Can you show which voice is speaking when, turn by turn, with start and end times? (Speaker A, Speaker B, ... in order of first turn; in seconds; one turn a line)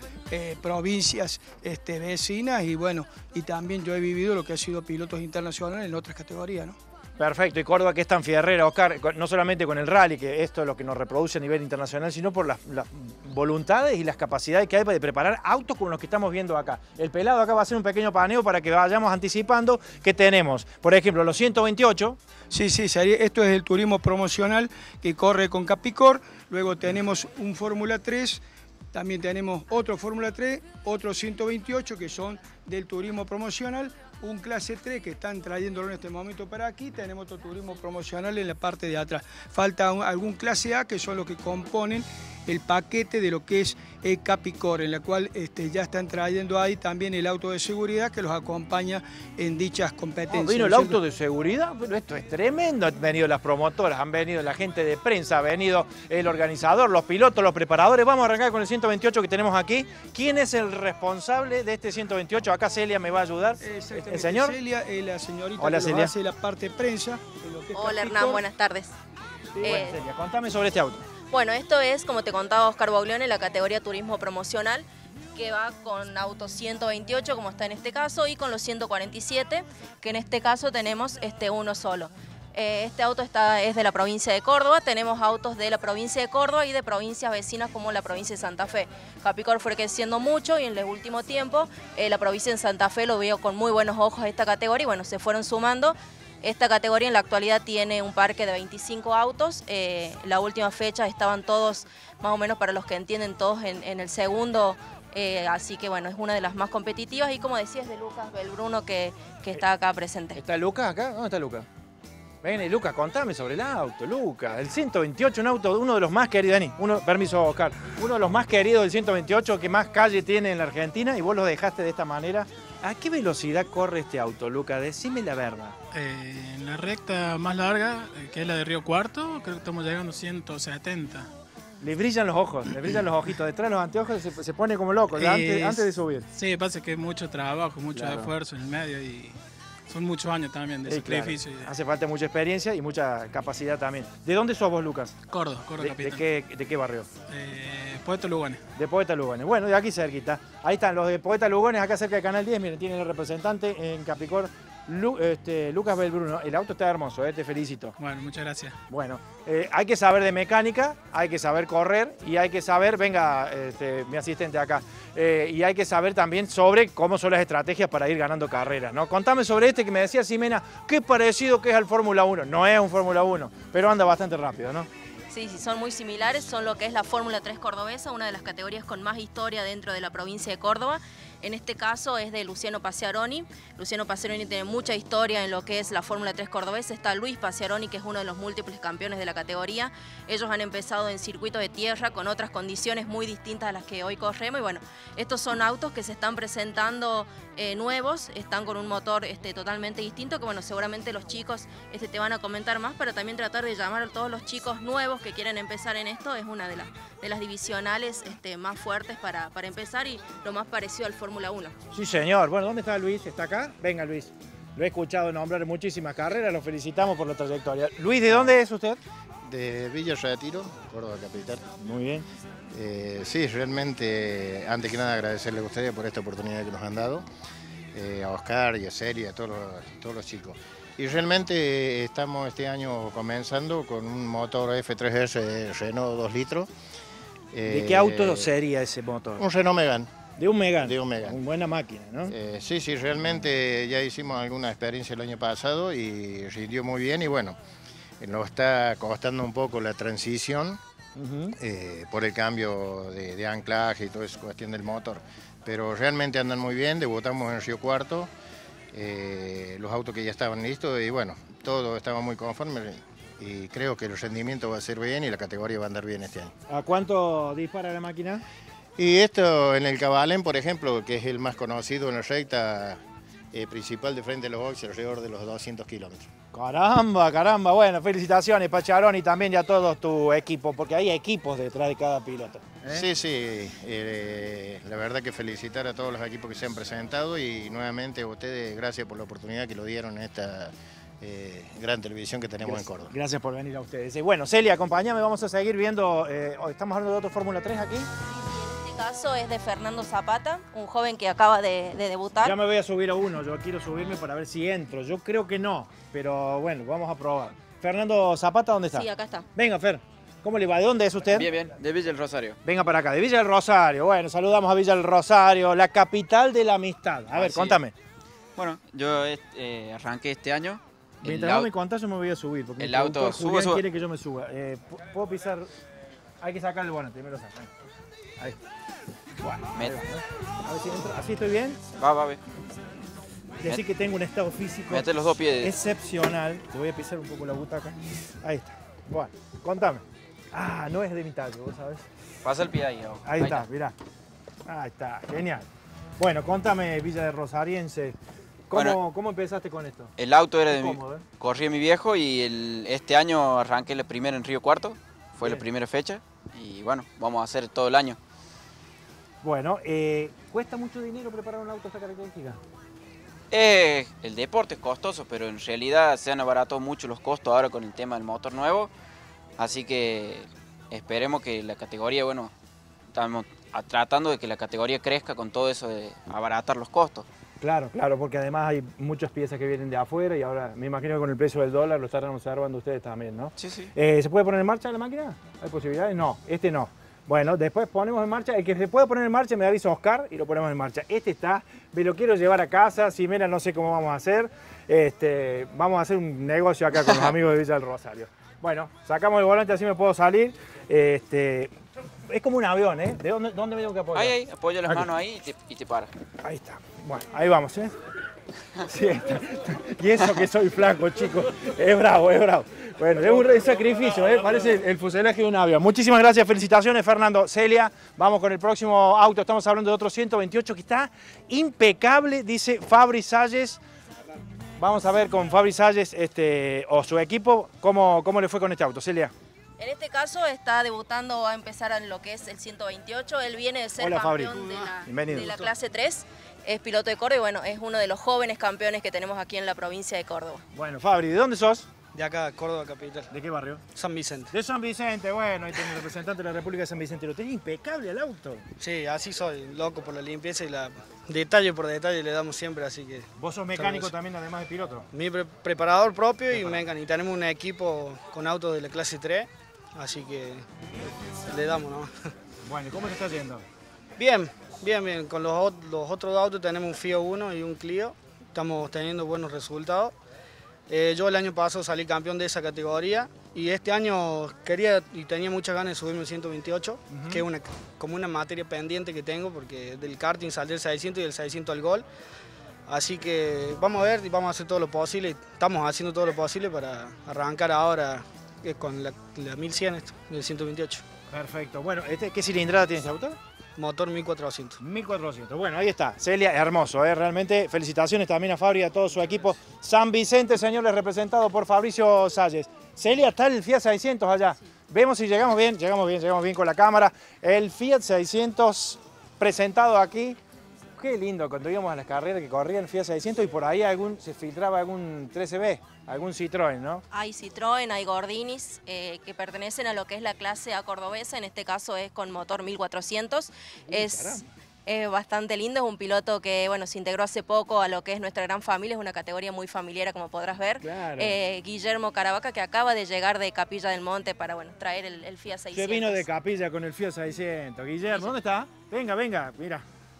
Speaker A: 0.3-6.8
Speaker B: 7.2-22.2
Speaker A: 22.5-28.4
Speaker A: 28.9-51.0
Speaker B: 50.3-64.5
Speaker A: 63.6-68.4
Speaker B: 65.6-66.1
Speaker C: 67.7-68.9
Speaker C: 69.6-70.0
Speaker B: 69.6-71.0
Speaker C: 71.3-110.4
Speaker B: 110.3-111.7
Speaker B: 112.4-125.8
Speaker D: 125.9-131.3
Speaker B: 131.8-136.3
Speaker D: 135.1-141.7
Speaker B: 137.9-138.3
Speaker B: 140.8-145.2
Speaker D: 145.3-146.2
Speaker B: 145.8-147.1
Speaker D: 147.3-148.6
Speaker B: 148.8-157.9
Speaker D: 158.0-158.8
Speaker B: 158.9-174.9
Speaker C: 175.3-211.7
Speaker B: 211.9-219.0
Speaker E: 218.3-218.6
Speaker E: 219.4-221.6
Speaker B: 221.8-222.3
Speaker E: 222.7-227.2
Speaker E: 227.9-236.7
Speaker E: 237.5-238.5
Speaker B: 237.7-239.4
Speaker E: 239.4-240.1
Speaker B: 240.4-242.3
Speaker E: 240.8-241.4
Speaker E: 242.3-247.6
Speaker E: 248.2-250.8
Speaker B: 251.2-251.5
Speaker E: 251.6-258.3
Speaker E: 258.9-266.5
Speaker B: 266.7-268.4
Speaker E: 269.0-273.0
Speaker E: 273.5-276.3
Speaker B: 276.5-283.1
Speaker E: 282.9-293.1
Speaker B: 292.6-298.1
Speaker C: 298.3-302.5
Speaker B: 302.4-311.5
Speaker C: 308.9-309.5
Speaker F: 311.3-312.6
Speaker B: 312.6-317.9
Speaker F: 317.3-317.8
Speaker F: 318.6-321.7
Speaker B: 321.2-325.7
Speaker F: 322.8-323.8
Speaker B: 326.4-327.7
Speaker B: 329.4-331.8
Speaker F: 332.0-332.4
Speaker B: 333.6-342.1
Speaker F: 334.9-335.7
Speaker F: 342.4-343.7
Speaker B: 343.2-343.9
Speaker B: 344.6-345.6
Speaker B: 346.2-348.2
Speaker B: 348.7-350.1
Speaker F: 348.7-349.0
Speaker F: 350.2-358.2
Speaker B: 350.7-351.2
Speaker B: 359.4-362.6
Speaker F: 363.5-368.9
Speaker F: 369.6-372.5
Speaker F: 373.1-377.2
Speaker B: 377.6-401.7
Speaker F: 383.6-383.9
Speaker B: 402.3-405.1
Speaker F: 404.1-406.1
Speaker B: 406.4-407.9
Speaker B: 408.8-423.8
Speaker B: 424.8-429.3
Speaker C: 429.8-440.6
Speaker B: 434.0-435.7
Speaker B: 440.7-441.9
Speaker G: 442.1-443.3
Speaker B: 443.3-443.8
Speaker G: 443.9-444.5
Speaker B: 444.5-448.6
Speaker G: 448.8-454.1
Speaker B: 453.4-455.1
Speaker G: 455.1-460.6
Speaker B: 456.5-456.8
Speaker G: 461.5-462.3
Speaker B: 462.6-463.6
Speaker G: 464.2-470.1
Speaker G: 470.9-482.1
Speaker B: 477.1-477.4
Speaker G: 482.9-491.0
Speaker B: 491.3-493.4
Speaker G: 493.8-494.8
Speaker B: 494.8-510.4
Speaker B: 511.0-517.0
Speaker C: 517.1-536.2
Speaker B: 523.9-524.4
Speaker B: 530.8-531.3
Speaker B: 535.7-539.8